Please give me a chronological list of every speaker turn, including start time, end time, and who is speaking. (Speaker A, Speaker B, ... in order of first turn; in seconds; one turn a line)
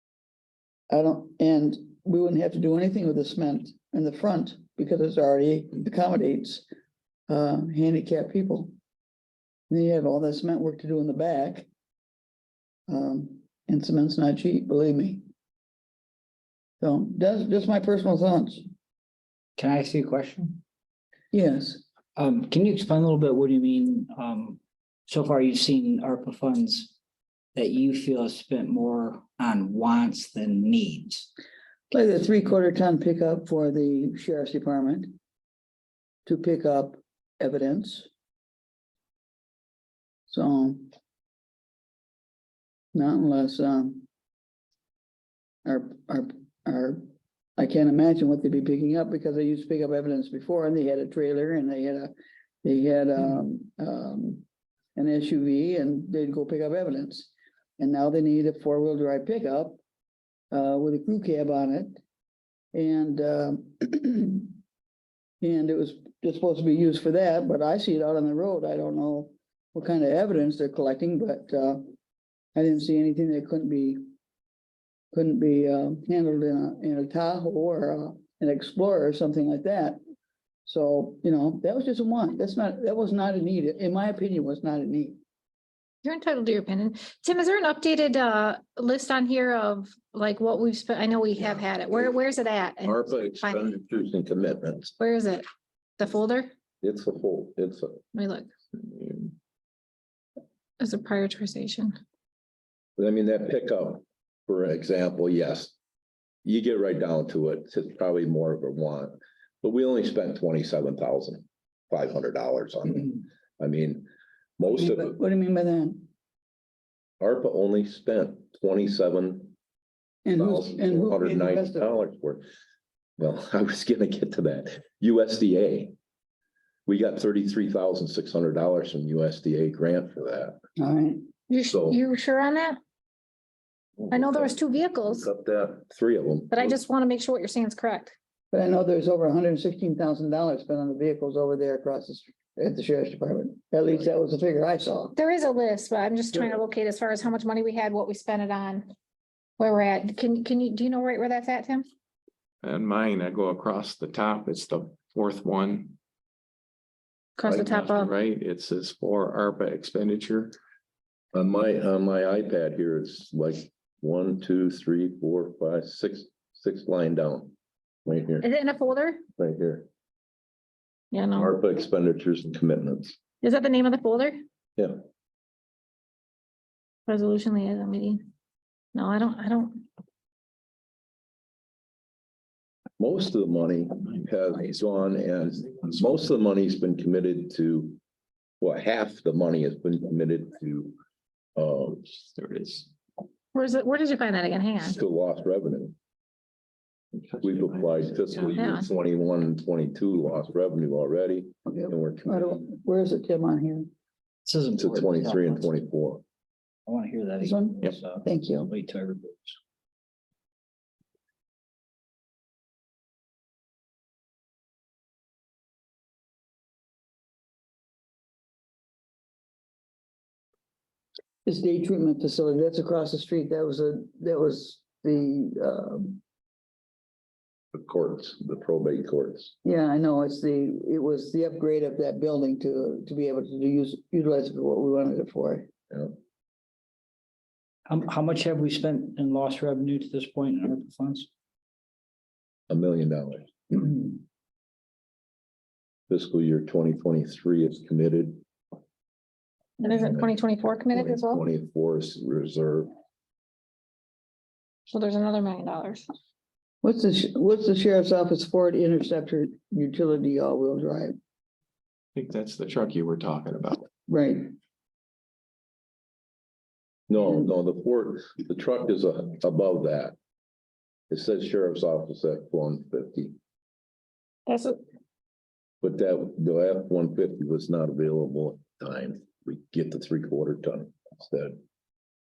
Speaker A: 0.9-6.7
Speaker A: 7.3-8.7
Speaker A: 9.7-11.7
Speaker A: 12.9-15.2
Speaker A: 16.8-18.6
Speaker B: 19.6-20.6
Speaker A: 21.3-21.8
Speaker B: 22.2-26.9
Speaker B: 27.6-31.3
Speaker A: 31.9-35.2
Speaker A: 36.2-38.1
Speaker A: 40.3-40.9
Speaker A: 42.9-44.1
Speaker A: 45.6-52.1
Speaker A: 52.6-54.4
Speaker A: 55.0-59.8
Speaker A: 60.5-62.0
Speaker A: 62.7-64.5
Speaker A: 65.4-71.9
Speaker A: 72.5-74.0
Speaker A: 75.1-80.0
Speaker A: 80.7-85.2
Speaker C: 86.0-93.7
Speaker D: 92.8-94.9
Speaker C: 95.0-95.4
Speaker C: 96.0-96.5
Speaker D: 96.8-98.0
Speaker C: 98.1-98.5
Speaker D: 99.0-99.3
Speaker C: 100.8-102.0
Speaker D: 103.0-105.7
Speaker D: 106.5-115.2
Speaker A: 114.7-116.1
Speaker D: 117.2-119.5
Speaker A: 120.2-122.0
Speaker D: 120.4-122.5
Speaker D: 123.2-125.9
Speaker D: 126.9-130.6
Speaker A: 130.8-131.3
Speaker C: 131.5-132.8
Speaker D: 131.7-132.0
Speaker D: 134.0-136.8
Speaker C: 134.1-135.3
Speaker C: 136.5-138.1
Speaker A: 138.5-145.1
Speaker C: 145.2-148.9
Speaker C: 149.6-151.9
Speaker E: 152.6-156.0
Speaker C: 157.4-158.1
Speaker E: 157.4-160.5
Speaker D: 161.3-167.5
Speaker D: 168.1-168.5
Speaker C: 168.4-169.2
Speaker D: 169.4-169.9
Speaker C: 171.1-171.6
Speaker D: 171.3-173.2
Speaker C: 173.4-174.4
Speaker C: 177.1-178.2
Speaker C: 178.9-179.8
Speaker D: 183.0-188.0
Speaker D: 188.6-191.0
Speaker D: 191.6-192.0
Speaker E: 192.2-192.9
Speaker C: 193.5-195.0
Speaker D: 194.8-195.9
Speaker E: 197.2-198.6
Speaker D: 197.4-202.7
Speaker C: 198.6-198.9
Speaker A: 201.7-203.9
Speaker B: 204.5-205.7
Speaker D: 204.8-206.2
Speaker B: 206.9-209.6
Speaker A: 207.4-208.7
Speaker A: 221.5-226.2
Speaker D: 227.7-229.5
Speaker A: 229.6-235.7
Speaker D: 235.9-236.2
Speaker B: 237.9-241.3
Speaker D: 242.7-244.0
Speaker D: 246.1-248.4
Speaker C: 249.8-251.4
Speaker D: 249.9-250.4
Speaker D: 250.9-252.9
Speaker C: 254.9-256.1
Speaker A: 256.8-261.1
Speaker E: 262.2-263.9
Speaker A: 264.1-264.5
Speaker D: 267.1-270.1
Speaker D: 271.1-273.4
Speaker C: 274.5-274.8
Speaker D: 275.8-281.6